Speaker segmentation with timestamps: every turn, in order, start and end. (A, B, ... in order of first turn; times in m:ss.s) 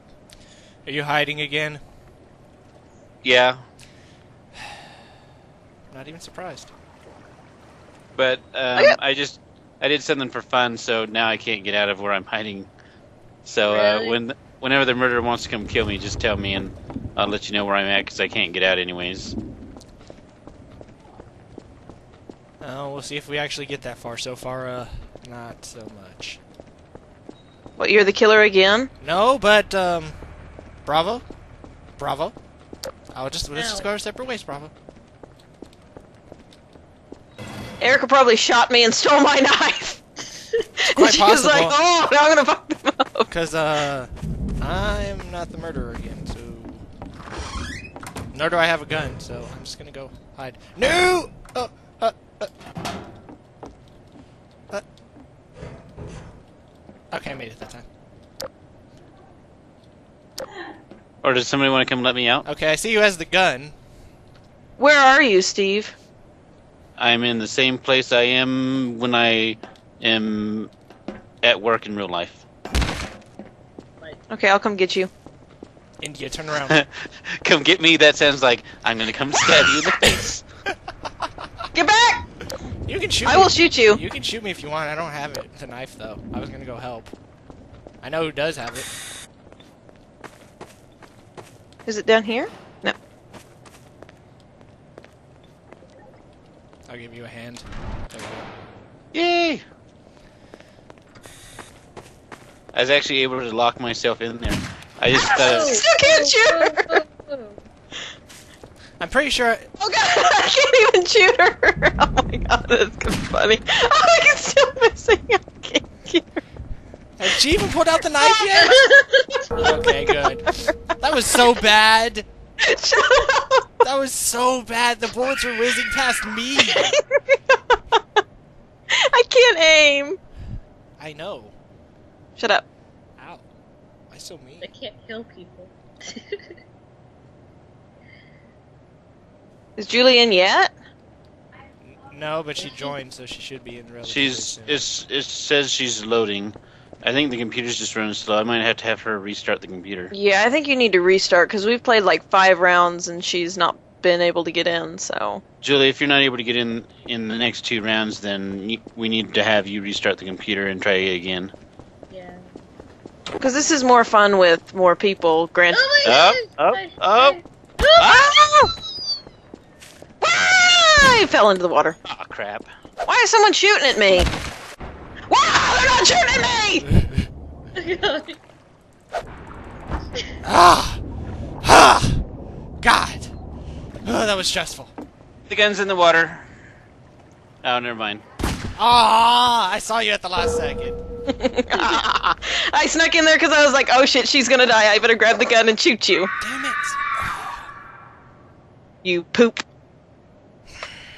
0:00.8-0:01.8 A
0:03.2-0:03.6 B
0:05.9-0:06.7 A
0:08.2-0:12.7 B
0:13.4-0:19.3 B
0:13.6-0:14.2 C
0:22.6-0:26.4 A
0:27.8-0:28.9 D
0:29.0-0:30.2 A
0:30.8-0:31.2 A
0:32.0-0:32.3 A
0:33.1-0:34.7 A
0:33.5-0:33.8 C
0:37.8-0:40.0 D
0:40.8-0:43.3 D
0:41.0-0:41.8 A
0:43.3-0:46.8 A
0:48.3-0:52.5 A
0:57.1-0:57.8 A
1:01.2-1:02.4 B
1:02.4-1:03.7 A
1:04.8-1:05.9 D
1:07.0-1:10.7 B
1:11.4-1:12.4 B
1:14.3-1:15.1 D
1:16.0-1:16.8 A
1:17.4-1:20.4 B
1:21.7-1:22.2 D
1:22.8-1:27.1 A
1:23.2-1:24.0 D
1:28.0-1:28.9 A
1:31.8-1:33.0 D
1:36.9-1:38.5 A
1:39.1-1:39.6 B
1:42.7-1:45.8 B
1:45.3-1:47.6 C
1:45.5-1:47.0 D
1:49.0-1:49.7 A
1:49.8-1:56.4 D
1:57.2-1:58.8 A
1:58.2-1:58.8 D
1:58.6-1:59.0 C
1:59.5-2:02.2 A
2:02.6-2:03.7 D
2:03.8-2:06.9 A
2:06.6-2:08.0 D
2:08.9-2:10.2 D
2:11.0-2:11.5 A
2:12.4-2:12.6 D
2:13.2-2:13.4 A
2:14.1-2:14.7 A
2:14.6-2:16.5 C
2:19.8-2:20.7 D
2:21.8-2:24.9 A
2:22.6-2:22.9 C
2:24.0-2:30.1 B
2:30.1-2:35.4 D
2:35.6-2:41.5 B
2:42.1-2:42.4 C
2:43.4-2:45.9 D
2:45.7-2:48.3 C
2:46.0-2:47.4 B
2:48.0-2:48.7 B
2:50.2-2:52.0 D
2:52.1-2:52.7 B
2:53.0-2:54.3 D
2:55.3-2:56.9 D
2:57.8-2:58.4 C
3:00.4-3:01.0 A
3:01.6-3:02.2 A
3:02.8-3:03.3 A
3:04.0-3:04.9 A
3:05.5-3:06.5 B
3:07.6-3:08.2 B
3:08.8-3:11.0 A
3:11.3-3:16.3 D
3:16.4-3:17.7 A
3:19.0-3:19.6 D